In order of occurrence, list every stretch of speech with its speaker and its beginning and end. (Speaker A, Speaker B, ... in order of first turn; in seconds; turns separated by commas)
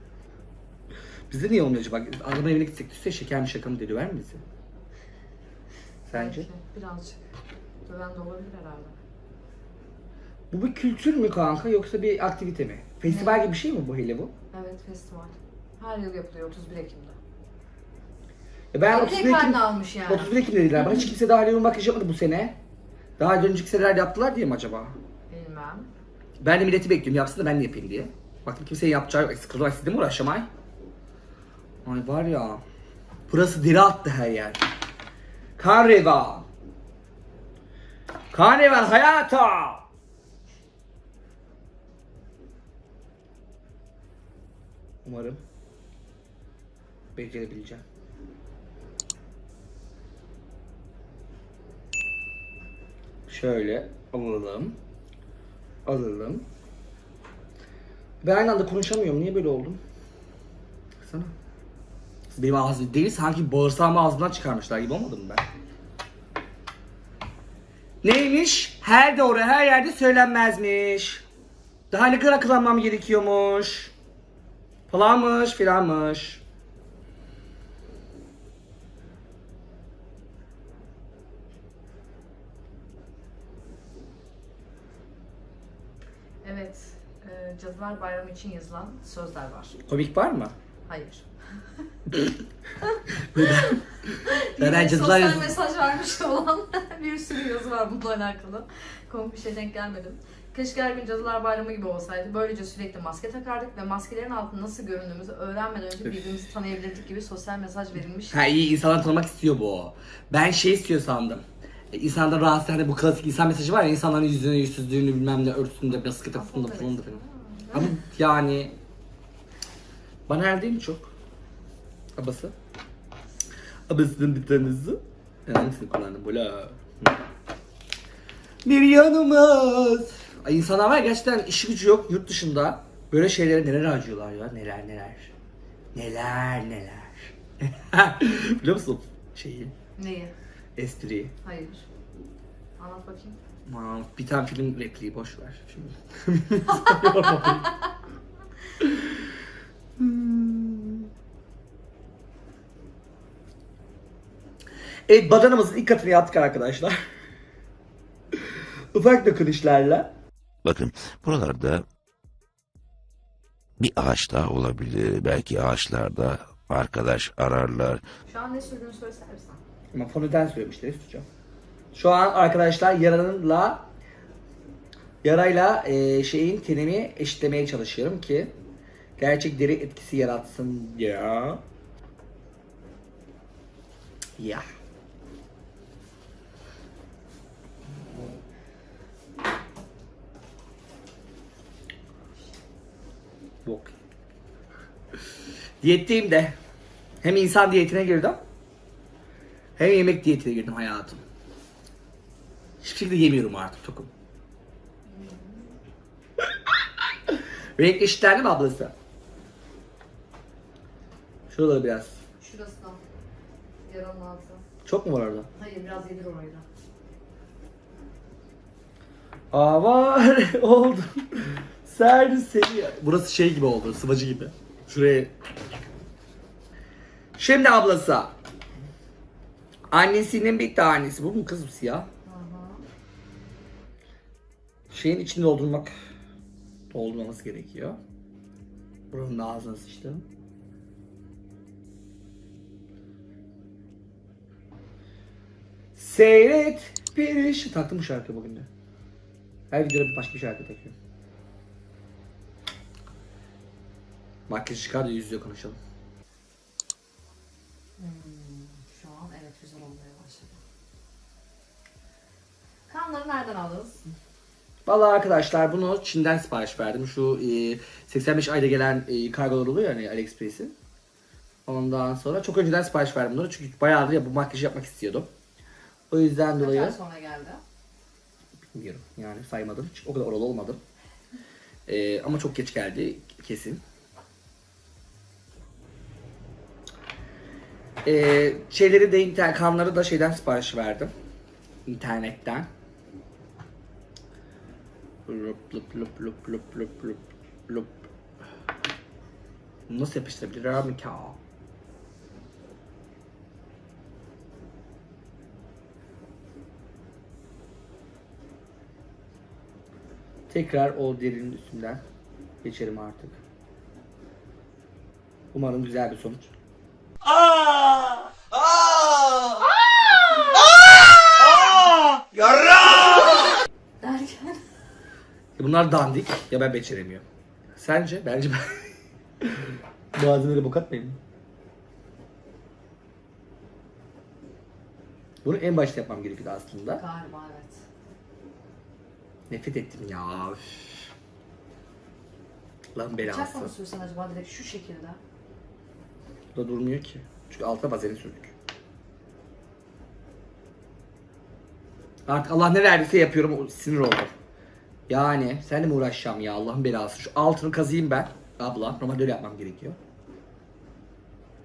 Speaker A: 1.3-4.4, Speaker A: 6.1-6.5, Speaker B: 6.1-7.2, Speaker B: 7.8-9.0, Speaker A: 10.5-14.3, Speaker B: 13.1-13.5, Speaker B: 14.5-17.2, Speaker A: 18.7-22.6, Speaker B: 18.9-20.4, Speaker A: 23.2-25.0, Speaker B: 25.3-25.9, Speaker A: 26.4-30.5, Speaker A: 31.8-32.6, Speaker A: 33.3-34.6, Speaker A: 35.6-36.5, Speaker A: 38.3-39.9, Speaker A: 45.0-45.4, Speaker A: 47.2-47.8, Speaker A: 53.3-54.8, Speaker A: 55.9-56.5, Speaker A: 58.2-59.8, Speaker A: 61.0-61.3, Speaker A: 62.3-65.5, Speaker A: 68.0-71.3, Speaker A: 71.9-73.9, Speaker A: 74.9-76.4, Speaker B: 86.4-89.8, Speaker A: 89.9-90.5, Speaker B: 90.9-91.6, Speaker A: 93.1-95.6, Speaker B: 94.2-108.4, Speaker A: 108.3-117.2, Speaker B: 116.3-118.0, Speaker A: 117.7-118.8, Speaker A: 120.3-121.1, Speaker A: 122.2-122.6, Speaker A: 123.9-127.2, Speaker A: 128.7-135.3, Speaker A: 135.9-139.8, Speaker B: 140.0-140.3, Speaker A: 140.8-141.3, Speaker B: 141.4-141.8, Speaker B: 142.8-143.4, Speaker A: 143.7-147.7, Speaker B: 146.8-147.1, Speaker A: 148.8-149.1, Speaker A: 150.0-151.1, Speaker A: 155.1-157.0, Speaker A: 158.4-160.1, Speaker C: 160.6-161.8, Speaker C: 163.8-168.0, Speaker B: 168.2-169.6, Speaker A: 169.9-171.3, Speaker A: 171.9-173.9, Speaker A: 175.2-178.5, Speaker A: 179.2-181.6, Speaker A: 184.4-184.7, Speaker A: 193.7-193.9, Speaker A: 195.8-196.6, Speaker A: 197.2-198.4, Speaker A: 199.8-201.2, Speaker A: 202.8-204.1, Speaker B: 205.1-205.8, Speaker A: 207.3-208.9, Speaker A: 211.5-212.2, Speaker B: 212.4-213.0, Speaker B: 213.9-214.6, Speaker A: 214.8-215.5, Speaker B: 215.6-216.7, Speaker A: 219.5-225.3, Speaker A: 227.4-228.4, Speaker A: 229.9-232.1, Speaker B: 232.2-232.8, Speaker A: 234.9-235.9, Speaker A: 236.9-238.0, Speaker A: 239.1-240.2, Speaker A: 246.0-248.7, Speaker A: 249.7-250.9, Speaker A: 254.5-255.8, Speaker B: 258.0-260.6, Speaker B: 262.9-264.1, Speaker A: 264.9-270.8, Speaker A: 271.7-275.3, Speaker A: 276.1-277.0, Speaker B: 276.6-277.6, Speaker A: 278.7-280.8, Speaker A: 281.9-283.8, Speaker A: 288.0-291.1, Speaker A: 291.9-292.7, Speaker A: 295.3-298.1, Speaker A: 299.9-301.4, Speaker A: 310.5-312.0, Speaker A: 312.6-313.4, Speaker A: 315.5-316.5, Speaker A: 318.7-319.5, Speaker A: 321.4-323.2, Speaker B: 324.0-324.6, Speaker A: 325.6-327.2, Speaker A: 327.8-331.2, Speaker A: 335.4-337.0, Speaker B: 336.9-337.9, Speaker A: 339.5-341.1, Speaker A: 342.9-343.7, Speaker B: 343.2-345.2, Speaker A: 346.6-348.5, Speaker A: 352.3-354.3, Speaker A: 355.1-360.0